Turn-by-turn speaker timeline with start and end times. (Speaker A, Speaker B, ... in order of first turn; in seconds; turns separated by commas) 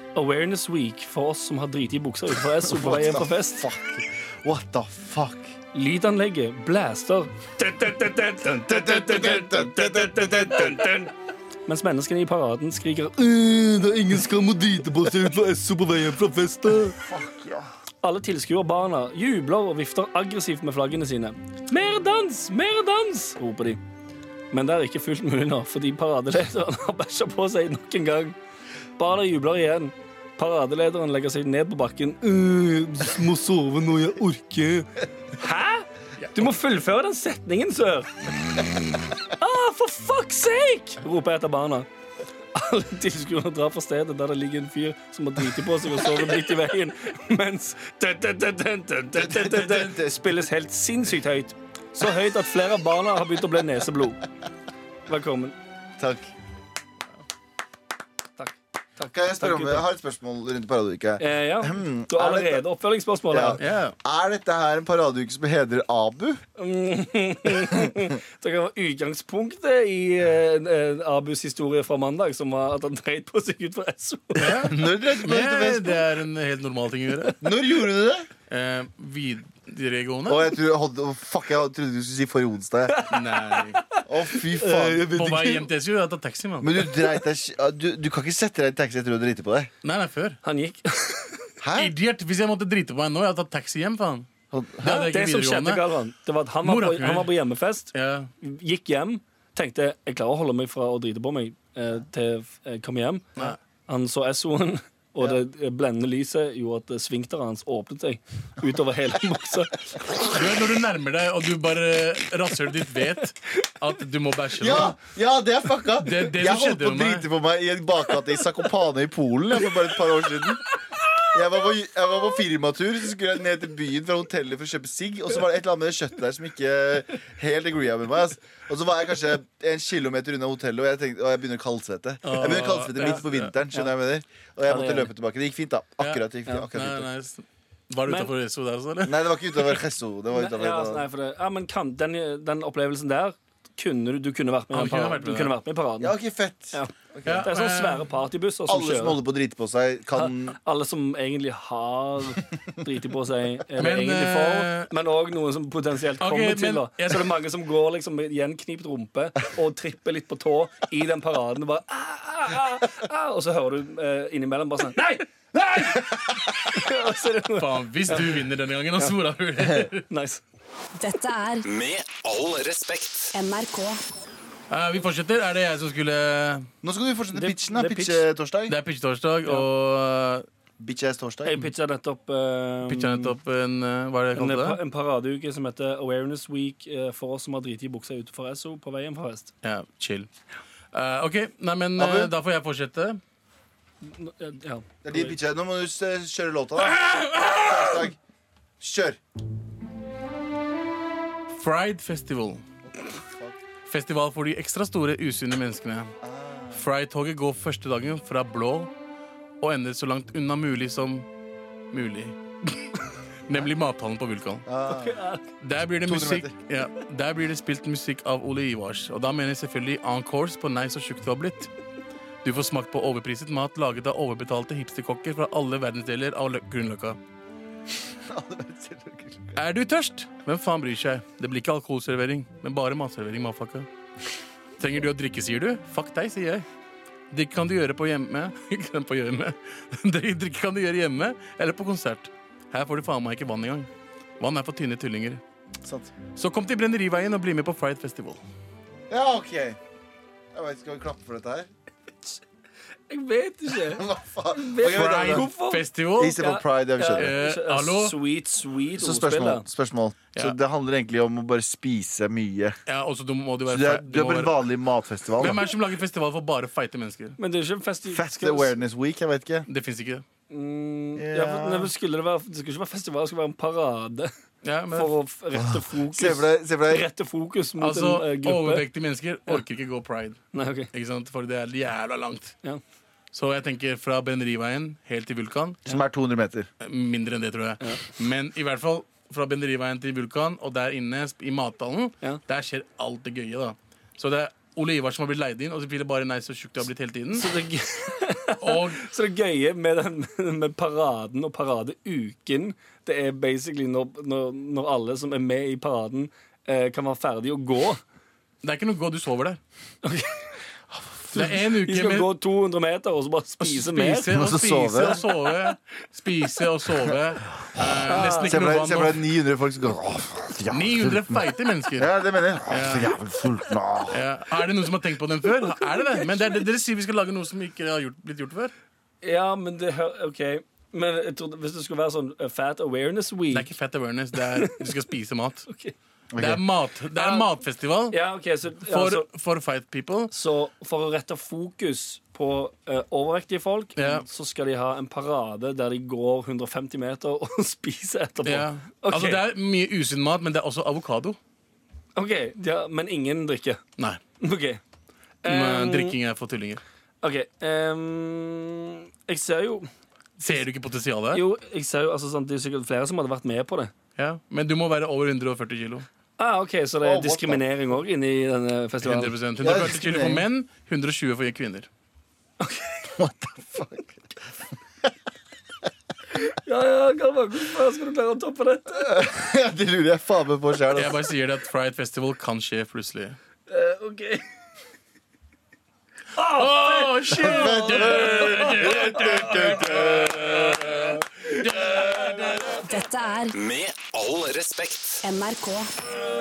Speaker A: 0.1-3.6, Speaker B: 2.6-5.5, Speaker A: 5.7-11.1, Speaker B: 8.7-10.9, Speaker A: 11.7-17.0, Speaker B: 16.9-17.7, Speaker A: 18.0-23.8, Speaker A: 24.5-28.4, Speaker A: 29.0-41.9, Speaker A: 42.5-54.2, Speaker B: 49.1-50.3, Speaker A: 55.1-55.5, Speaker B: 56.0-56.3, Speaker A: 58.4-59.8, Speaker B: 59.1-62.6, Speaker A: 61.2-63.6, Speaker B: 63.3-66.4, Speaker C: 63.6-63.9, Speaker A: 66.6-74.7, Speaker B: 67.7-68.0, Speaker C: 74.3-77.4, Speaker B: 74.6-76.0, Speaker B: 77.4-78.3, Speaker C: 78.5-80.6, Speaker B: 80.3-83.0, Speaker A: 82.9-85.5, Speaker C: 83.1-83.8, Speaker B: 84.1-85.6, Speaker C: 85.0-86.8, Speaker B: 86.6-89.7, Speaker C: 89.8-90.4, Speaker A: 90.4-91.5, Speaker B: 91.6-91.9, Speaker C: 91.8-94.3, Speaker B: 94.5-94.9, Speaker C: 94.8-95.8, Speaker A: 94.8-110.0, Speaker C: 96.6-97.3, Speaker C: 97.9-98.3, Speaker C: 110.2-115.0, Speaker B: 114.6-120.6, Speaker C: 116.0-117.3, Speaker B: 121.3-137.1, Speaker C: 132.2-133.5, Speaker A: 134.7-135.1, Speaker C: 136.0-139.8, Speaker A: 138.0-138.3, Speaker B: 139.0-141.1, Speaker A: 140.3-146.2, Speaker C: 144.7-145.6, Speaker B: 146.0-147.5, Speaker A: 146.7-149.2, Speaker C: 147.2-148.1, Speaker B: 148.7-150.6, Speaker A: 150.1-168.4, Speaker C: 153.8-154.9, Speaker C: 156.2-157.4, Speaker C: 167.6-170.0, Speaker A: 170.1-170.4, Speaker D: 170.9-171.6, Speaker E: 171.6-173.4, Speaker D: 173.3-174.0, Speaker C: 174.7-176.7, Speaker B: 176.8-178.8, Speaker A: 177.3-178.2, Speaker C: 178.7-180.4, Speaker B: 180.8-181.6, Speaker A: 181.4-183.3, Speaker C: 182.9-184.8, Speaker A: 184.3-189.5, Speaker C: 189.6-190.3, Speaker C: 190.9-193.2, Speaker B: 192.0-192.3, Speaker A: 194.0-195.3, Speaker B: 195.0-198.2, Speaker C: 196.8-198.1, Speaker B: 198.8-199.2, Speaker C: 201.5-202.6, Speaker B: 202.9-203.6, Speaker C: 203.8-206.1, Speaker B: 206.2-206.8, Speaker C: 206.7-208.9, Speaker C: 209.6-211.2, Speaker C: 211.9-212.3, Speaker C: 213.5-214.7, Speaker B: 214.7-215.2, Speaker A: 214.9-215.4, Speaker C: 215.6-221.7, Speaker B: 216.0-216.6, Speaker C: 222.4-227.2, Speaker B: 228.2-229.6, Speaker C: 229.5-233.9, Speaker C: 234.8-236.7, Speaker C: 237.3-243.9, Speaker C: 244.4-245.4, Speaker B: 245.8-246.1, Speaker C: 246.3-248.4, Speaker B: 249.1-249.8, Speaker B: 250.5-251.7, Speaker A: 253.1-255.8, Speaker B: 253.8-255.5, Speaker C: 254.8-256.4, Speaker B: 256.2-257.3, Speaker A: 256.3-259.6, Speaker C: 257.1-258.2, Speaker B: 259.0-262.8, Speaker C: 262.9-264.6, Speaker B: 263.7-265.6, Speaker C: 265.4-267.4, Speaker A: 267.4-268.8, Speaker B: 268.1-269.7, Speaker C: 269.7-270.2, Speaker A: 270.5-274.3, Speaker B: 271.2-271.9, Speaker C: 274.6-275.1, Speaker A: 274.9-278.9, Speaker B: 275.6-277.0, Speaker C: 277.8-282.6, Speaker A: 280.5-280.9, Speaker C: 283.3-285.9, Speaker B: 285.9-286.7, Speaker C: 286.8-297.5, Speaker A: 297.3-308.0, Speaker C: 298.6-299.0, Speaker C: 308.6-309.6, Speaker A: 310.0-310.5, Speaker C: 311.3-312.3, Speaker A: 311.3-314.3, Speaker C: 313.6-319.2, Speaker B: 314.3-315.2, Speaker B: 317.7-321.4, Speaker A: 318.1-318.6, Speaker C: 320.7-322.1, Speaker B: 321.9-324.2, Speaker C: 322.7-323.2, Speaker C: 324.1-328.7, Speaker A: 325.5-326.6, Speaker A: 329.2-333.7, Speaker C: 333.5-335.7, Speaker A: 334.4-334.9, Speaker A: 335.7-335.9, Speaker B: 336.3-336.6, Speaker C: 336.4-338.2, Speaker A: 337.1-337.5, Speaker A: 338.1-339.2, Speaker C: 338.8-340.3, Speaker A: 340.3-349.4, Speaker C: 344.0-344.2, Speaker C: 348.4-351.4, Speaker A: 352.1-353.8, Speaker A: 354.4-354.8, Speaker A: 355.4-356.2, Speaker C: 355.4-356.8, Speaker A: 357.2-359.9, Speaker C: 360.4-361.4, Speaker A: 361.3-363.9, Speaker C: 364.2-366.1, Speaker A: 366.4-369.4, Speaker B: 367.0-367.6, Speaker C: 369.0-371.9, Speaker B: 369.6-370.4, Speaker A: 372.6-373.1, Speaker B: 373.1-374.2, Speaker A: 376.3-379.3, Speaker B: 379.0-381.2, Speaker C: 380.9-383.4, Speaker A: 383.7-384.4, Speaker A: 386.3-389.9, Speaker C: 386.5-392.8, Speaker B: 387.3-391.2, Speaker A: 391.8-392.6, Speaker B: 391.9-392.7, Speaker D: 392.9-393.5, Speaker E: 393.5-395.3, Speaker D: 395.2-395.9